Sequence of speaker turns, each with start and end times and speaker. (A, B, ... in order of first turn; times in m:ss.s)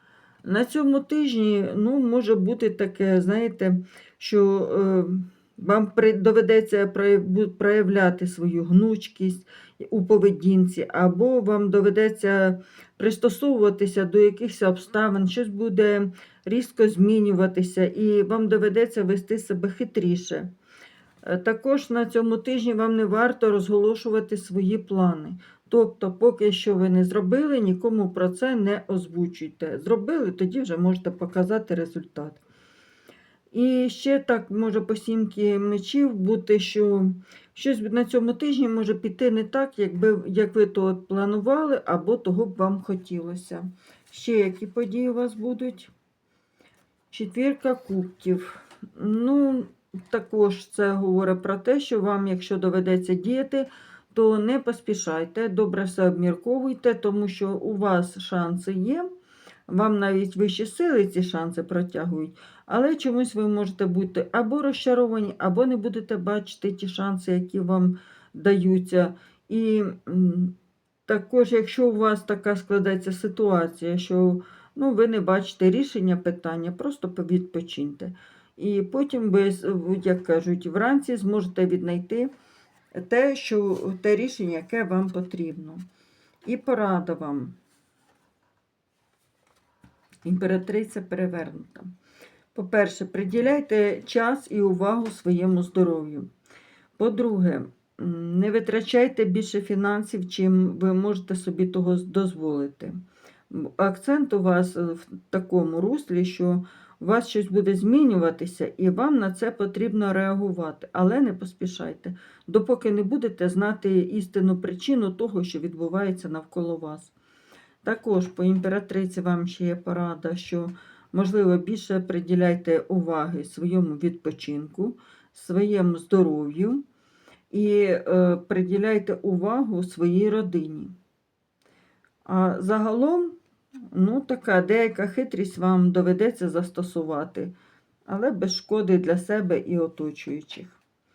0:00.4-0:20.5 A
0:21.2-0:32.4 A
0:33.5-0:45.9 A
0:47.1-0:59.1 A
0:59.7-1:10.5 A
1:11.1-1:22.3 A
1:23.0-1:25.8 A
1:26.4-1:27.6 A
1:30.2-1:31.9 A
1:32.5-1:36.3 A
1:37.0-1:42.9 A
1:43.5-1:57.1 A
1:57.8-2:06.8 A
2:07.5-2:10.9 A
2:12.2-2:13.4 A
2:13.9-2:17.5 A
2:18.1-2:20.8 A